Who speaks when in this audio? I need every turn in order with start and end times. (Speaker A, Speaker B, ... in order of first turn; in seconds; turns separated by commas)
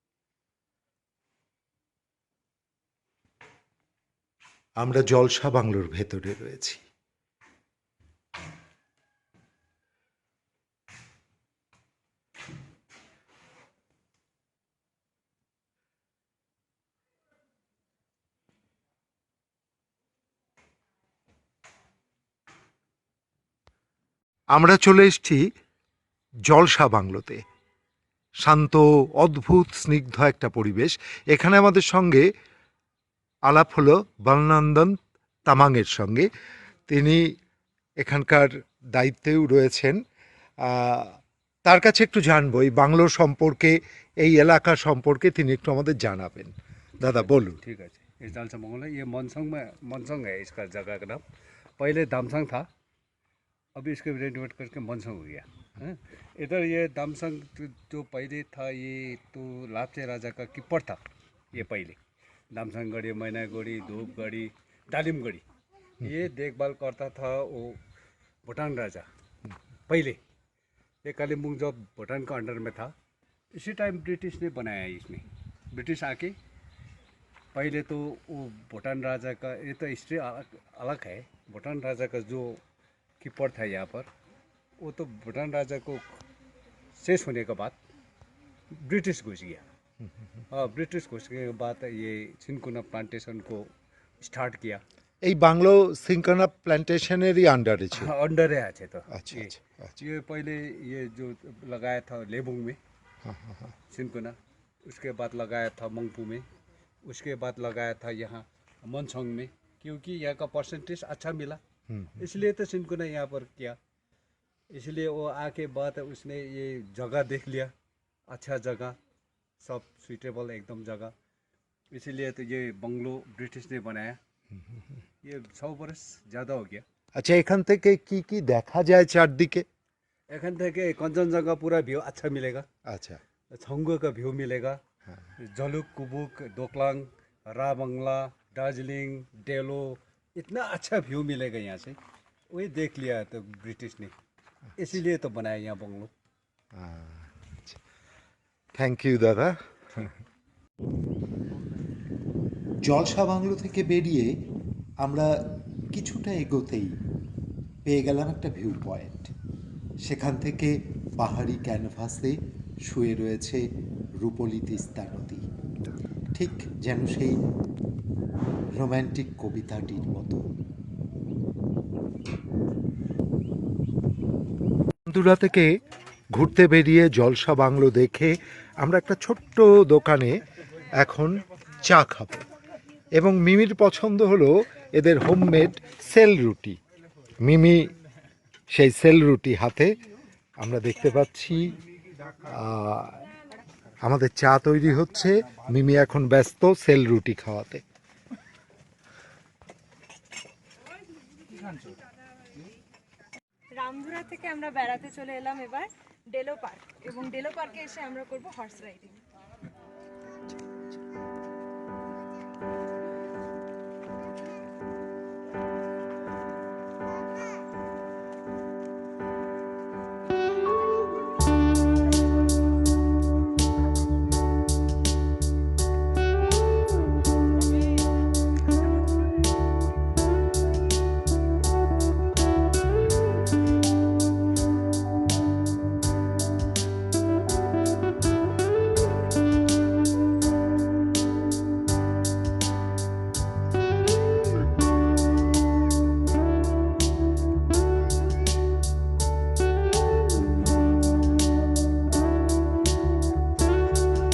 Speaker A: 4.8-6.8, Speaker A: 24.5-25.4, Speaker A: 26.5-27.4, Speaker A: 28.4-32.2, Speaker A: 33.5-36.3, Speaker A: 36.9-37.3, Speaker A: 38.0-40.0, Speaker A: 40.6-47.6, Speaker B: 47.0-51.2, Speaker B: 51.8-52.7, Speaker B: 53.7-61.0, Speaker B: 61.5-62.0, Speaker B: 62.5-65.4, Speaker B: 66.0-67.8, Speaker B: 68.4-69.1, Speaker B: 69.9-70.2, Speaker B: 71.0-72.9, Speaker B: 73.5-76.4, Speaker B: 77.5-82.6, Speaker B: 83.2-84.1, Speaker B: 84.8-86.2, Speaker B: 87.0-87.8, Speaker B: 88.7-89.7, Speaker B: 90.5-94.8, Speaker A: 95.2-98.1, Speaker B: 97.9-102.8, Speaker A: 99.1-100.0, Speaker A: 103.2-103.7, Speaker B: 103.9-106.5, Speaker B: 107.0-111.6, Speaker A: 111.9-112.2, Speaker B: 112.2-113.8, Speaker B: 114.7-117.7, Speaker B: 118.3-119.0, Speaker B: 119.6-121.1, Speaker B: 121.9-124.2, Speaker B: 125.2-126.8, Speaker A: 127.2-129.7, Speaker B: 130.3-132.7, Speaker A: 132.8-133.2, Speaker B: 133.5-134.8, Speaker B: 135.4-142.0, Speaker B: 142.5-144.1, Speaker B: 144.8-146.1, Speaker A: 146.7-147.8, Speaker A: 148.7-150.1, Speaker A: 152.8-154.3, Speaker A: 155.0-156.9, Speaker A: 157.8-159.3, Speaker A: 160.0-163.7, Speaker A: 164.2-165.4, Speaker A: 166.3-167.4, Speaker A: 168.7-170.4, Speaker A: 175.1-175.8, Speaker A: 176.3-180.4, Speaker A: 181.0-182.5, Speaker A: 183.2-186.8, Speaker A: 187.4-187.9, Speaker A: 188.7-189.9, Speaker A: 190.6-191.8, Speaker A: 192.4-193.2, Speaker A: 194.0-197.8, Speaker C: 203.8-209.2